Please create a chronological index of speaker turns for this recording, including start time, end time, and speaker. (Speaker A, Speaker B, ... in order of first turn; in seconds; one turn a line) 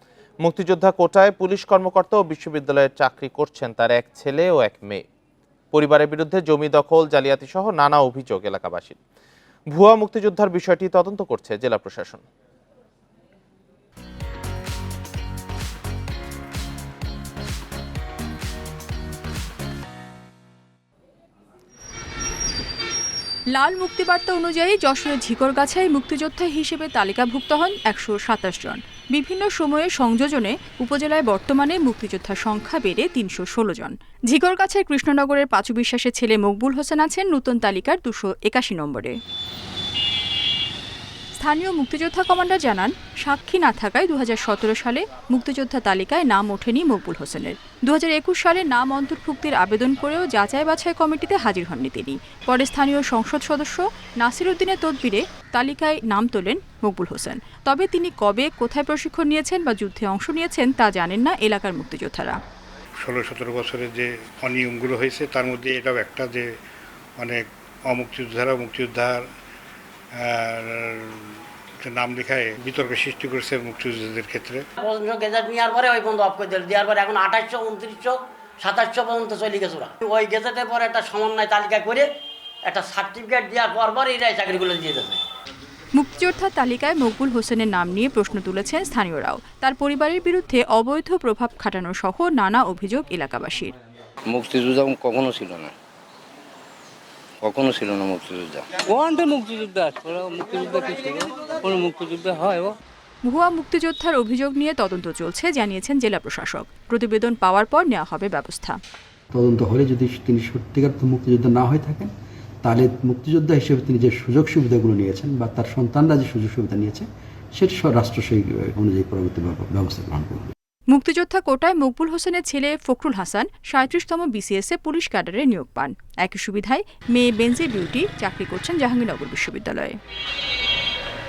Speaker A: 0.4-5.0
Speaker A: 5.7-9.0
Speaker A: 9.7-12.2
Speaker B: 23.5-39.2
Speaker B: 41.4-62.4
Speaker C: 63.0-66.5
Speaker C: 67.2-69.2
Speaker C: 70.2-74.7
Speaker D: 74.8-82.1
Speaker D: 82.7-85.2
Speaker B: 86.0-93.8
Speaker E: 94.3-95.7
Speaker E: 97.4-98.7
Speaker F: 98.8-102.8
Speaker B: 103.2-108.8
Speaker G: 109.3-112.1
Speaker G: 112.6-120.5
Speaker B: 120.9-130.0